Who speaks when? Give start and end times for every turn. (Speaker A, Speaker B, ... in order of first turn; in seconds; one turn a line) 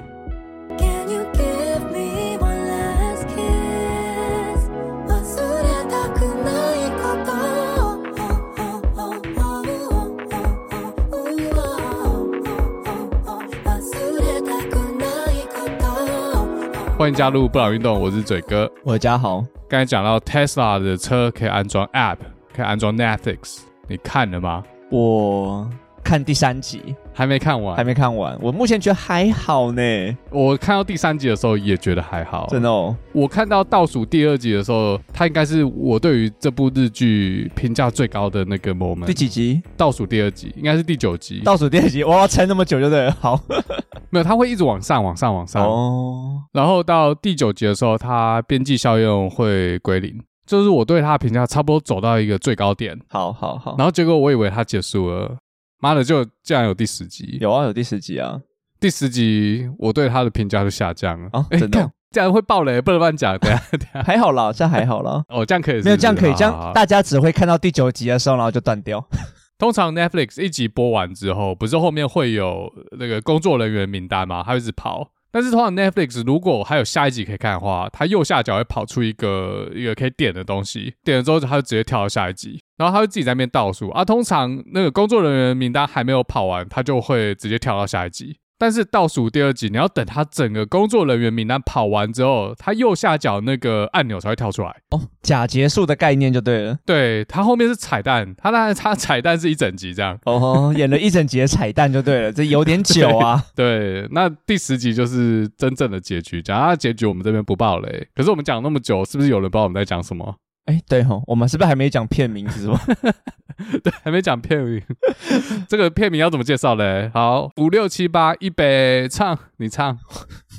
Speaker A: 0.8-17.2
Speaker B: 17.0-18.7
Speaker C: 18.8-19.5
Speaker B: 19.7-24.6
Speaker C: 24.9-27.0
Speaker B: 27.1-27.9
Speaker C: 27.7-30.2
Speaker B: 30.3-39.2
Speaker C: 32.5-33.0
Speaker C: 39.0-39.6
Speaker B: 39.8-41.5
Speaker C: 41.4-43.8
Speaker B: 44.1-45.8
Speaker C: 45.5-46.5
Speaker B: 46.5-53.0
Speaker C: 53.1-53.8
Speaker B: 53.8-57.4
Speaker C: 57.4-58.4
Speaker B: 58.8-64.1
Speaker C: 61.3-61.9
Speaker C: 64.0-65.3
Speaker B: 65.3-66.8
Speaker C: 65.8-69.1
Speaker B: 69.6-94.8
Speaker C: 94.9-96.8
Speaker B: 96.8-100.6
Speaker C: 100.2-103.5
Speaker B: 102.8-110.4
Speaker C: 110.7-112.9
Speaker B: 112.9-120.0